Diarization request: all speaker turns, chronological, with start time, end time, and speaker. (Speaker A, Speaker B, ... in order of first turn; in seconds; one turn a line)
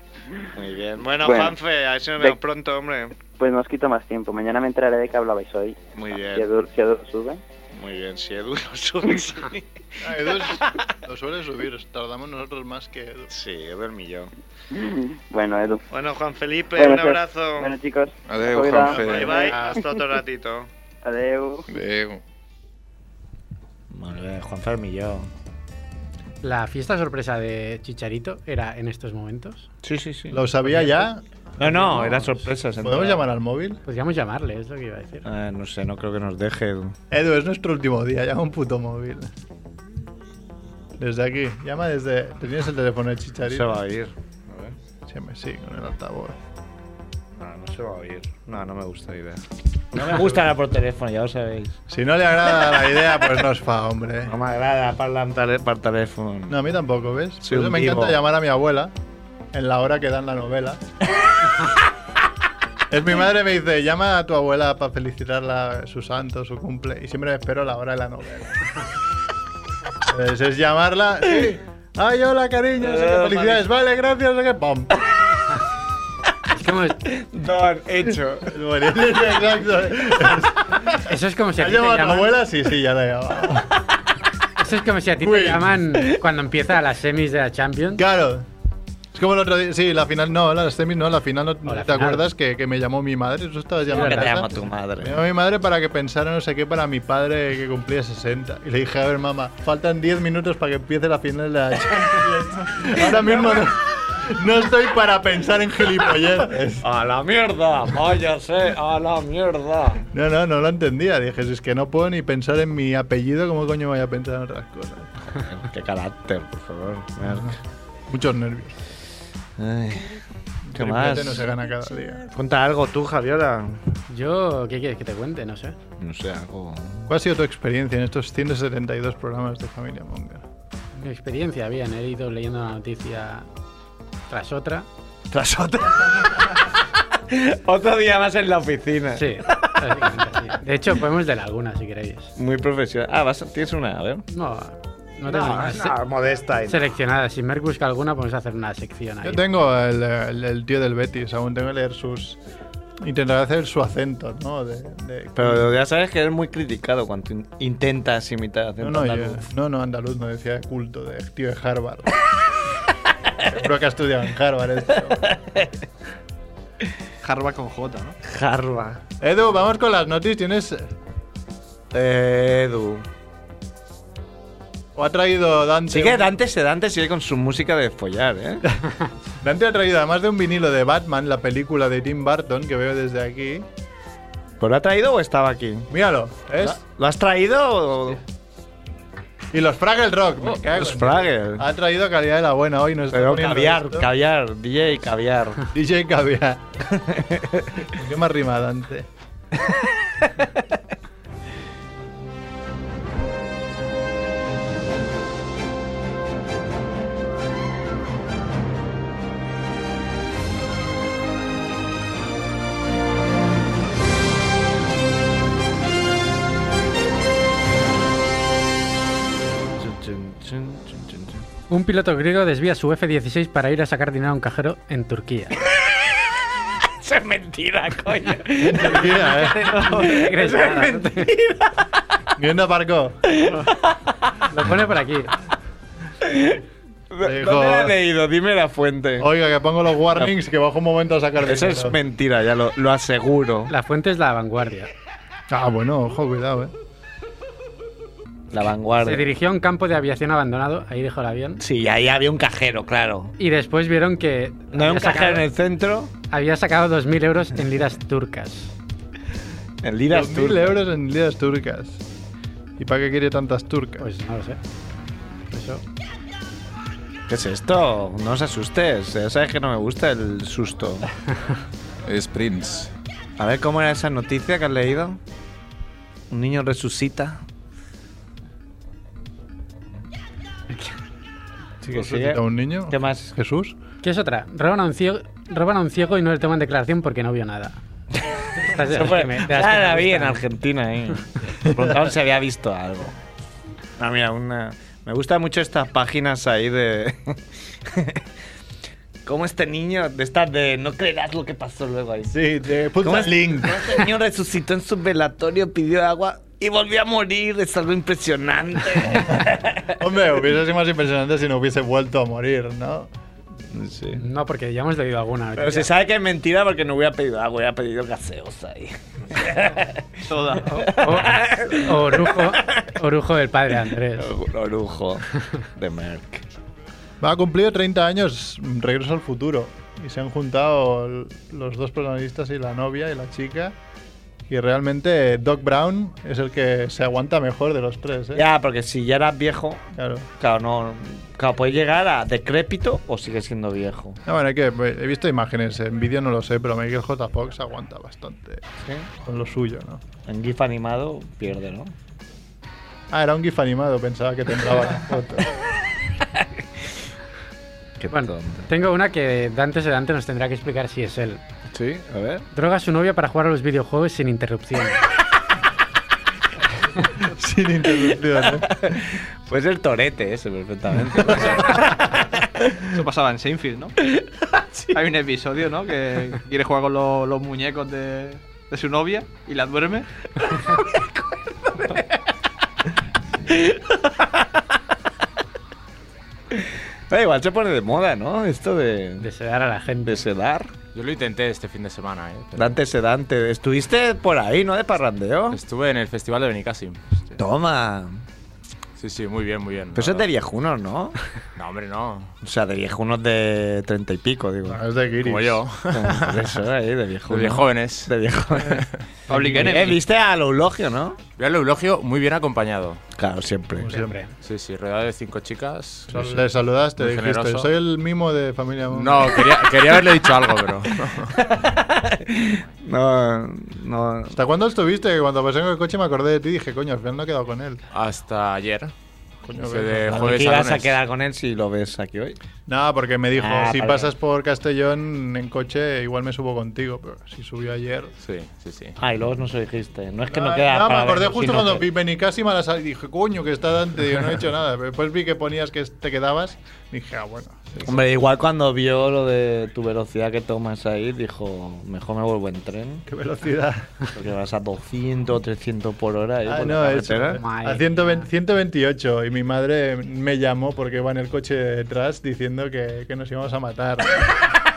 Speaker A: 0.5-3.2
Speaker B: 1.2-1.6
Speaker B: 3.2-5.8
Speaker A: 5.9-6.5
Speaker B: 6.3-7.4
Speaker A: 7.7-10.8
Speaker C: 10.0-13.3
Speaker A: 13.3-14.3
Speaker B: 14.7-15.8
Speaker A: 15.9-17.7
Speaker B: 16.8-19.8
Speaker D: 18.2-19.5
Speaker C: 18.9-19.8
Speaker A: 19.0-20.7
Speaker B: 21.0-21.6
Speaker D: 21.7-22.2
Speaker A: 23.9-25.3
Speaker E: 26.4-29.7
Speaker A: 29.8-30.9
Speaker C: 30.3-33.8
Speaker A: 31.6-33.2
Speaker E: 33.9-35.2
Speaker A: 35.2-37.0
Speaker C: 37.1-39.3
Speaker C: 41.0-43.8
Speaker A: 43.4-44.7
Speaker C: 45.1-46.4
Speaker A: 47.4-51.8
Speaker C: 50.0-50.4
Speaker C: 51.9-54.3
Speaker A: 54.2-56.6
Speaker C: 56.5-58.9
Speaker A: 57.4-58.2
Speaker C: 59.5-60.8
Speaker C: 62.9-68.6
Speaker C: 70.0-74.9
Speaker A: 72.8-73.6
Speaker E: 76.5-77.0
Speaker A: 77.1-78.5
Speaker C: 78.4-83.8
Speaker E: 80.9-82.3
Speaker E: 84.6-88.0
Speaker C: 85.2-85.8
Speaker C: 88.0-88.5
Speaker C: 89.1-106.8
Speaker E: 91.7-92.2
Speaker E: 93.9-94.4
Speaker A: 93.9-95.2
Speaker A: 102.8-103.7
Speaker A: 106.8-110.0
Speaker C: 110.1-115.1
Speaker A: 115.2-117.5
Speaker C: 117.2-117.5
Speaker C: 118.1-118.8
Speaker A: 119.6-121.5
Speaker C: 120.7-122.3
Speaker A: 122.3-123.9
Speaker E: 124.1-125.8
Speaker A: 126.0-127.1
Speaker C: 127.1-130.4
Speaker E: 130.9-133.5
Speaker E: 134.3-134.9
Speaker A: 135.3-136.7
Speaker A: 137.3-140.1
Speaker E: 139.2-142.3
Speaker A: 142.4-144.2
Speaker E: 144.3-146.0
Speaker A: 145.3-146.8
Speaker E: 146.7-149.4
Speaker C: 149.2-152.4
Speaker C: 153.0-155.7
Speaker A: 155.3-159.4
Speaker C: 158.8-162.2
Speaker C: 163.4-165.2
Speaker A: 165.1-165.8
Speaker F: 167.2-168.2
Speaker A: 168.2-169.0
Speaker C: 169.2-170.9
Speaker A: 171.9-173.0
Speaker C: 174.9-176.3
Speaker A: 175.9-178.6
Speaker C: 179.4-183.7
Speaker A: 184.6-185.9
Speaker C: 185.9-186.8
Speaker A: 186.6-188.2
Speaker C: 189.5-194.1
Speaker A: 190.7-191.6
Speaker A: 193.1-195.7
Speaker C: 195.7-196.7
Speaker A: 196.9-197.9
Speaker C: 197.9-199.1
Speaker A: 199.7-200.3
Speaker A: 219.7-221.4
Speaker E: 221.7-225.6
Speaker A: 226.8-231.9
Speaker C: 228.6-229.9
Speaker F: 229.4-230.3
Speaker E: 229.8-231.3
Speaker C: 232.3-233.3
Speaker A: 233.3-234.1
Speaker E: 234.5-235.3
Speaker A: 236.2-239.3
Speaker C: 237.2-237.9
Speaker C: 239.2-241.9
Speaker A: 241.4-243.7
Speaker E: 243.7-244.9
Speaker C: 245.5-246.7
Speaker A: 248.5-249.3
Speaker E: 249.0-251.6
Speaker A: 251.6-253.3
Speaker E: 253.4-255.5
Speaker A: 254.7-256.1
Speaker E: 256.3-258.7
Speaker A: 259.8-260.8
Speaker C: 260.1-262.0
Speaker C: 262.8-264.1
Speaker E: 264.0-264.6
Speaker E: 265.5-265.8
Speaker A: 267.3-271.1
Speaker D: 272.0-272.9
Speaker A: 273.4-275.2
Speaker A: 276.3-277.4
Speaker A: 281.8-283.3
Speaker C: 281.9-283.8
Speaker E: 284.0-287.8
Speaker A: 288.1-293.1
Speaker E: 288.6-290.4
Speaker A: 294.0-298.2
Speaker A: 299.2-302.3
Speaker C: 302.3-304.1
Speaker A: 303.0-310.0
Speaker C: 310.0-313.1
Speaker A: 313.7-314.2
Speaker E: 314.1-315.9
Speaker A: 315.6-320.1
Speaker F: 320.3-321.0
Speaker A: 320.7-322.9
Speaker E: 320.8-324.3
Speaker A: 324.1-326.4
Speaker C: 327.2-333.7
Speaker C: 334.5-338.4
Speaker A: 338.3-339.8
Speaker C: 339.9-340.3
Speaker A: 340.4-344.2
Speaker C: 344.2-348.6
Speaker A: 348.8-349.1
Speaker C: 349.2-350.0
Speaker A: 350.2-351.9
Speaker C: 353.1-355.5
Speaker A: 358.0-358.7
Speaker E: 358.1-361.4
Speaker A: 361.7-362.4
Speaker E: 362.5-365.0
Speaker C: 367.2-368.7
Speaker A: 368.4-372.4
Speaker F: 372.9-373.9
Speaker A: 374.0-375.0
Speaker F: 374.9-380.1
Speaker A: 380.6-382.2
Speaker A: 383.5-384.5
Speaker A: 387.1-389.3
Speaker E: 389.2-390.2
Speaker A: 390.0-390.7
Speaker G: 390.9-392.7
Speaker A: 392.6-395.6
Speaker G: 395.5-397.0
Speaker A: 397.4-398.2
Speaker G: 399.0-400.3
Speaker A: 399.9-401.2
Speaker G: 401.6-402.3
Speaker A: 402.4-404.8
Speaker C: 404.6-405.6
Speaker G: 405.2-406.5
Speaker A: 405.9-408.9
Speaker G: 407.3-408.1
Speaker F: 409.3-410.0
Speaker C: 409.3-409.6
Speaker A: 409.5-411.2
Speaker G: 411.4-413.0
Speaker A: 413.1-413.9
Speaker C: 413.8-414.2
Speaker E: 413.9-414.3
Speaker G: 414.4-416.4
Speaker C: 416.1-419.5
Speaker G: 417.0-417.7
Speaker G: 418.9-421.3
Speaker A: 421.4-424.4
Speaker C: 424.3-427.8
Speaker G: 427.9-428.9
Speaker C: 429.4-430.6
Speaker G: 429.6-431.0
Speaker A: 430.1-432.4
Speaker C: 432.7-438.1
Speaker A: 433.4-434.1
Speaker G: 438.2-438.9
Speaker A: 439.0-441.9
Speaker C: 440.3-448.0
Speaker A: 447.8-453.0
Speaker C: 453.1-453.9
Speaker A: 454.1-457.4
Speaker C: 456.4-464.2
Speaker E: 457.4-458.3